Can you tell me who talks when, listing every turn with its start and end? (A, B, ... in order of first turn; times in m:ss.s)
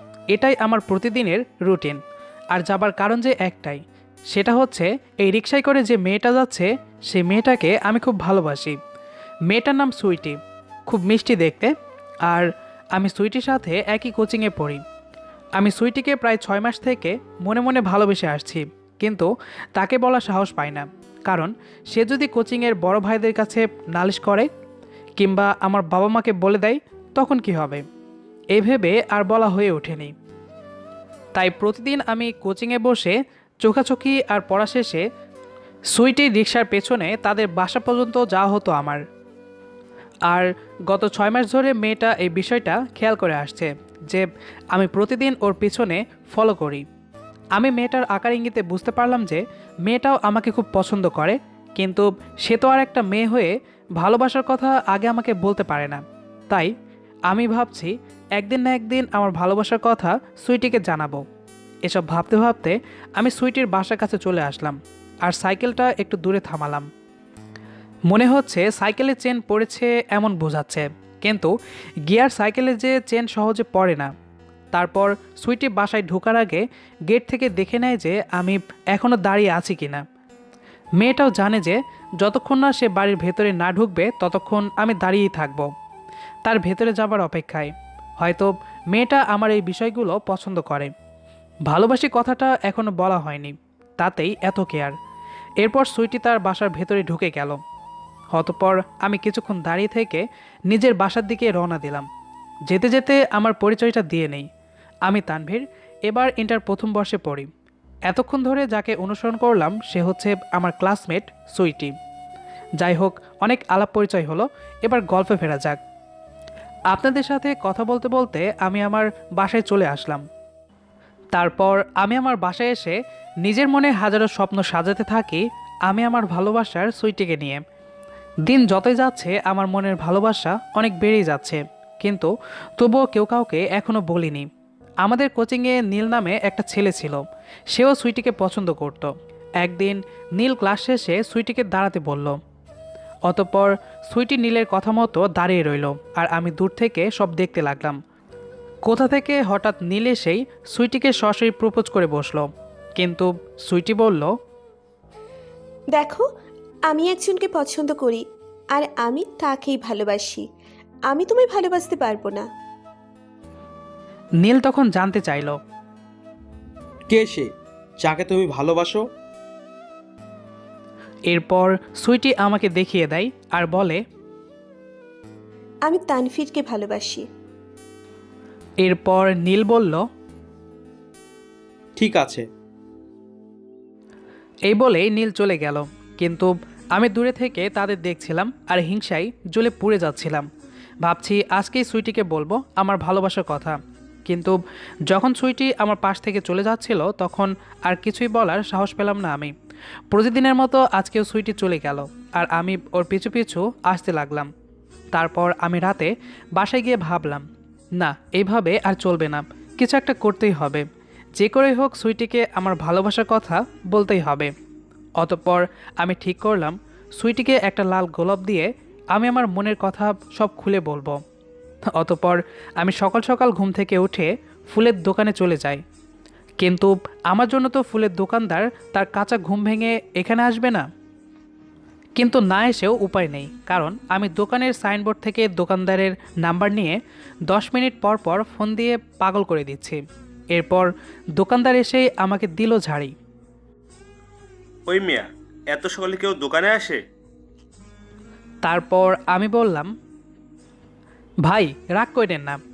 0:00.3-0:02.0 A
0:02.5-0:08.8 A
0:09.5-0:11.7 A
0:12.3-0:14.8 A
0:15.6-0:24.5 A
0:25.2-0:27.8 A
0:28.5-0:30.1 A
0:31.4-0:35.0 A
0:35.9-0:39.0 A
0:40.3-0:46.9 A
0:47.6-0:56.7 A
0:57.3-1:01.2 A
1:01.9-1:06.9 A
1:08.1-1:11.5 A
1:12.1-1:14.1 A
1:14.7-1:20.0 A
1:21.0-1:25.7 A
1:26.4-1:30.9 A
1:31.7-1:35.0 A
1:35.6-1:37.6 A
1:38.3-1:42.1 A
1:42.7-1:44.5 A
1:45.1-1:47.5 A
1:48.1-1:52.0 A
1:52.8-1:55.8 A
1:56.9-2:00.2 A
2:01.3-2:07.6 A
2:08.4-2:14.5 A
2:15.0-2:22.4 A
2:23.3-2:28.0 A
2:28.8-2:34.3 A
2:36.0-2:36.2 B
2:36.9-2:38.2 B
2:38.8-2:40.4 B
2:41.1-2:42.4 B
2:44.4-2:45.6 A
2:47.1-2:49.1 C
2:51.3-2:54.0 A
2:55.9-2:57.2 B
2:58.8-3:00.0 A
3:02.0-3:02.5 C
3:04.7-3:10.5 A
3:11.0-3:19.5 A
3:20.1-3:24.5 A
3:25.1-3:27.4 A
3:28.0-3:30.9 A
3:31.4-3:34.5 A
3:35.2-3:41.2 A
3:41.9-3:45.8 A
3:46.6-3:50.9 A
3:52.2-4:00.0 A
4:00.5-4:03.1 A
4:04.9-4:07.0 D
4:08.6-4:09.9 A
4:11.4-4:12.6 A